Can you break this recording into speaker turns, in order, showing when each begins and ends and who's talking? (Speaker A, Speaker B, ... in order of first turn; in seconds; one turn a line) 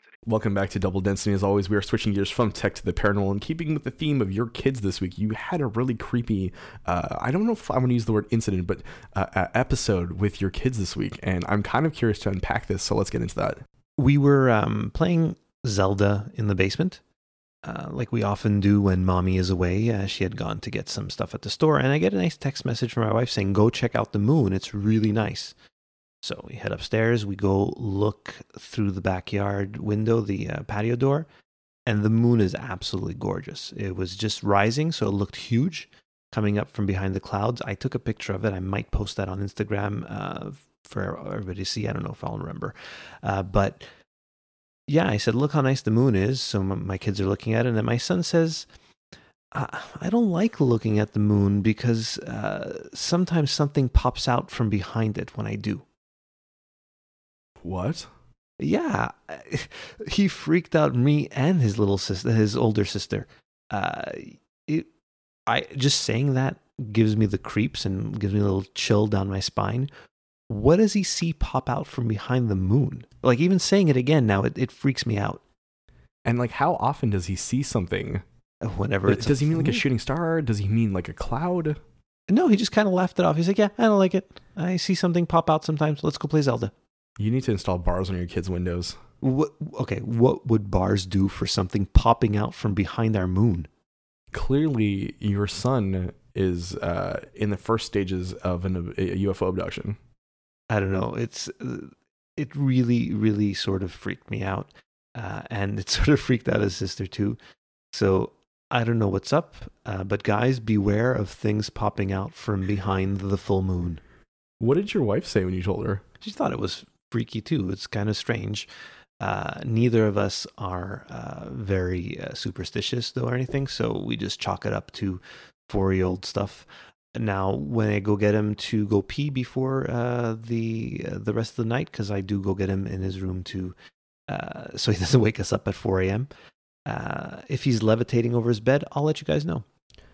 Speaker A: 0.2-13.6
Speaker B: 14.0-17.0
Speaker B: 17.6-25.6
Speaker B: 26.2-31.3
Speaker B: 31.9-43.9
Speaker B: 44.9-48.7
Speaker B: 49.5-55.9
Speaker A: 57.6-58.1
Speaker B: 58.6-64.9
Speaker B: 65.5-69.9
Speaker B: 70.5-75.4
Speaker A: 76.2-78.2
Speaker B: 78.6-79.8
Speaker A: 79.1-81.8
Speaker B: 82.3-86.7
Speaker A: 87.2-89.0
Speaker B: 89.2-93.7
Speaker A: 94.3-100.0
Speaker B: 100.7-107.4
Speaker B: 107.9-114.0
Speaker A: 114.6-116.0
Speaker B: 116.2-118.7
Speaker B: 119.2-133.8
Speaker B: 134.3-136.3
Speaker B: 136.9-139.7